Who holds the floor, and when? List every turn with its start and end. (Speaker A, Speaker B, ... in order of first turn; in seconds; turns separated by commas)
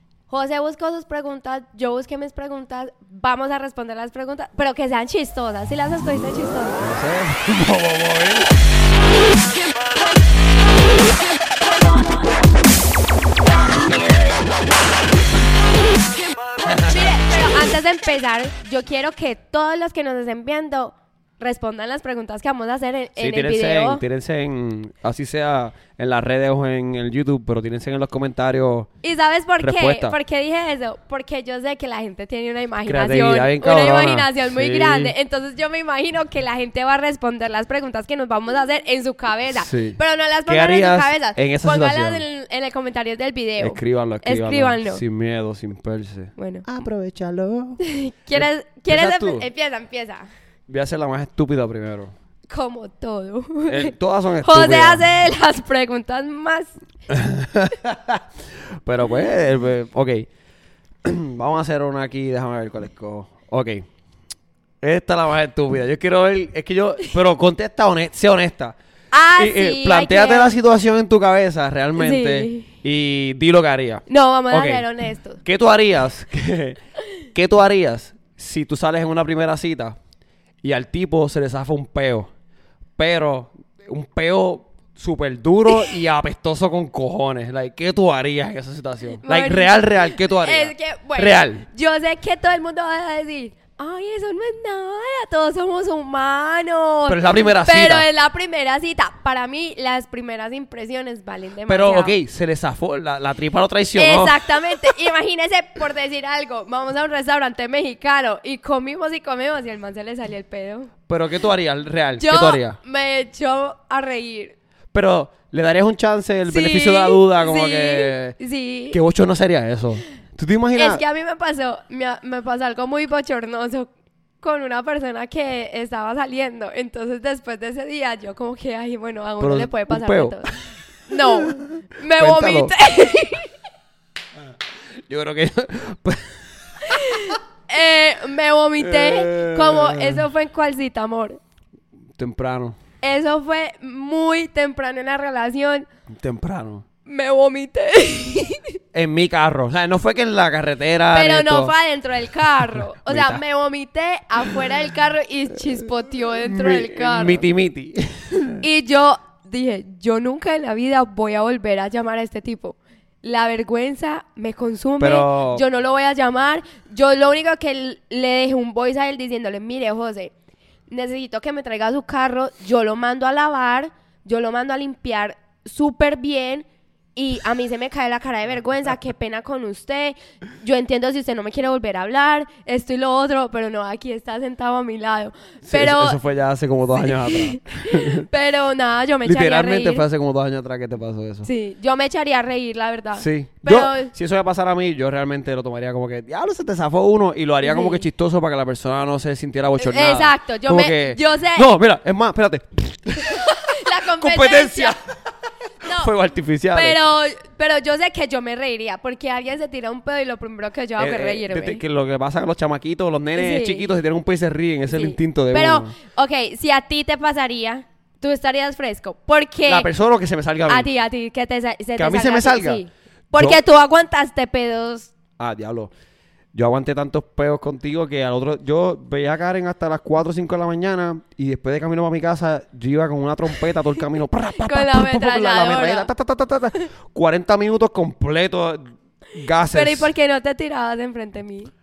Speaker A: 0.3-6.9, Speaker B: 6.8-8.5, Speaker A: 16.7-24.0, Speaker B: 23.2-28.9, Speaker A: 29.0-45.0, Speaker B: 29.6-30.2, Speaker B: 32.9-35.1, Speaker B: 39.5-42.2, Speaker B: 43.6-47.8, Speaker A: 46.4-46.6, Speaker A: 47.8-50.3, Speaker B: 48.3-49.5, Speaker B: 50.7-52.1, Speaker A: 52.5-56.7, Speaker B: 53.7-55.1, Speaker B: 57.1-58.2, Speaker B: 58.8-60.3, Speaker B: 61.0-63.8, Speaker B: 64.8-68.8, Speaker A: 69.1-70.5, Speaker B: 69.4-74.8, Speaker A: 72.0-72.7, Speaker A: 74.1-75.4, Speaker B: 75.4-76.8, Speaker B: 77.3-80.0, Speaker B: 80.6-82.3, Speaker B: 83.0-91.6, Speaker A: 89.2-102.1, Speaker B: 97.1-98.1, Speaker B: 101.7-104.9, Speaker A: 103.9-110.9, Speaker B: 111.1-112.8, Speaker A: 112.2-114.5, Speaker B: 114.9-118.3, Speaker A: 116.5-119.0, Speaker B: 118.9-121.0, Speaker A: 120.7-123.9, Speaker A: 124.4-130.6, Speaker B: 129.4-130.6, Speaker A: 131.1-133.5, Speaker B: 131.2-132.7, Speaker B: 135.1-137.2, Speaker A: 136.8-141.4, Speaker B: 138.8-140.3, Speaker B: 142.2-142.8, Speaker A: 143.0-145.9, Speaker B: 146.1-146.8, Speaker A: 147.1-148.8, Speaker B: 148.9-151.7, Speaker A: 151.1-157.4, Speaker B: 152.7-153.4, Speaker B: 156.4-158.6, Speaker A: 158.6-170.3, Speaker B: 165.0-165.6, Speaker A: 170.9-186.2, Speaker B: 185.7-188.3, Speaker A: 187.0-190.0, Speaker B: 189.2-191.5, Speaker A: 191.4-194.1, Speaker B: 193.2-205.0, Speaker A: 197.6-198.1, Speaker A: 199.8-201.7, Speaker A: 203.2-204.9, Speaker A: 205.8-206.1, Speaker B: 205.8-207.0, Speaker A: 206.7-211.8, Speaker B: 211.0-215.9, Speaker A: 213.3-213.9, Speaker A: 214.9-219.9, Speaker B: 219.7-220.9, Speaker A: 220.7-225.1, Speaker B: 222.0-222.8, Speaker B: 223.3-223.6, Speaker B: 225.4-225.9, Speaker B: 226.5-240.1, Speaker A: 234.6-236.1, Speaker A: 239.6-241.7